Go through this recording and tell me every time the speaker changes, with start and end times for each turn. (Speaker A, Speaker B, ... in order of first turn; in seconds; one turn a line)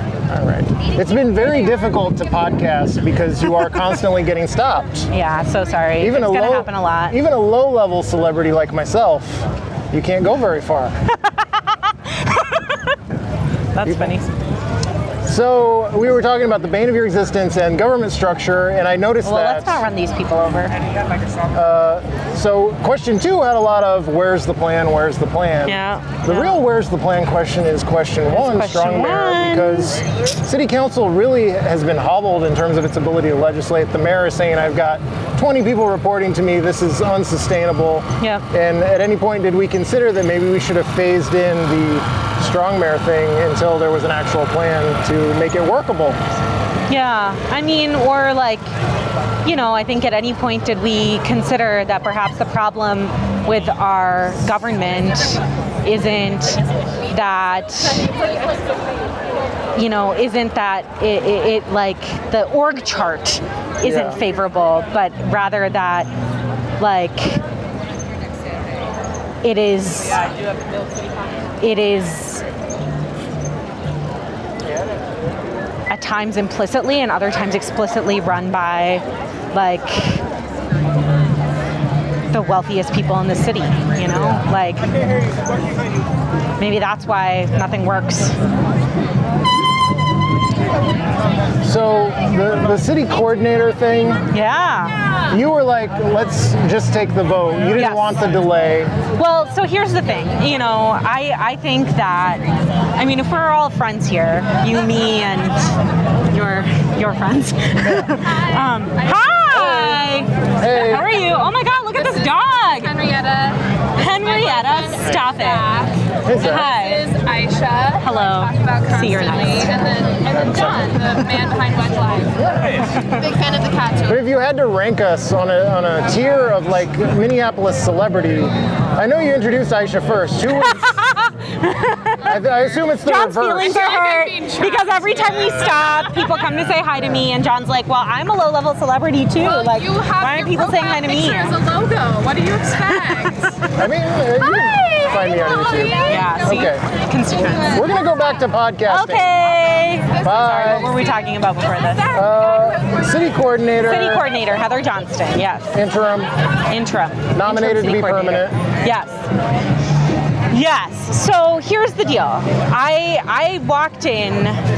Speaker A: 0.3-5.1
Speaker B: 5.1-7.2
Speaker A: 6.0-10.9
Speaker B: 11.7-12.8
Speaker B: 13.7-14.3
Speaker A: 13.8-14.2
Speaker A: 15.2-19.8
Speaker B: 19.2-20.7
Speaker A: 21.5-46.2
Speaker B: 25.6-26.6
Speaker B: 28.3-30.0
Speaker B: 38.2-38.5
Speaker B: 46.9-48.7
Speaker B: 49.4-58.2
Speaker B: 59.8-66.1
Speaker A: 63.8-64.2
Speaker B: 66.8-67.4
Speaker B: 69.4-70.2
Speaker B: 71.6-72.4
Speaker B: 75.9-80.2
Speaker B: 82.3-84.9
Speaker A: 84.1-84.4
Speaker B: 86.6-88.4
Speaker A: 91.6-94.2
Speaker B: 94.3-95.0
Speaker A: 95.3-99.0
Speaker B: 97.8-98.2
Speaker B: 99.1-102.4
Speaker B: 102.9-105.7
Speaker B: 106.3-113.3
Speaker A: 107.8-108.2
Speaker A: 109.5-110.0
Speaker A: 110.6-111.1
Speaker C: 113.0-113.6
Speaker B: 114.0-115.9
Speaker A: 116.2-116.8
Speaker B: 116.4-117.2
Speaker C: 117.0-122.4
Speaker B: 118.0-120.0
Speaker A: 120.0-121.0
Speaker A: 122.4-122.8
Speaker B: 122.9-123.3
Speaker C: 123.4-123.9
Speaker A: 123.9-131.0
Speaker B: 130.6-132.4
Speaker A: 132.2-133.8
Speaker B: 133.0-141.7
Speaker C: 134.0-134.6
Speaker C: 139.7-143.5
Speaker B: 142.7-143.6
Speaker A: 143.7-146.8
Speaker B: 144.6-144.9
Speaker B: 145.9-147.8
Speaker A: 147.7-149.3
Speaker B: 148.9-152.2
Speaker A: 150.2-150.9
Speaker A: 152.1-154.3
Speaker B: 153.8-155.8
Speaker A: 155.7-156.3
Speaker B: 156.7-159.3
Speaker A: 157.3-158.6
Speaker B: 160.5-164.6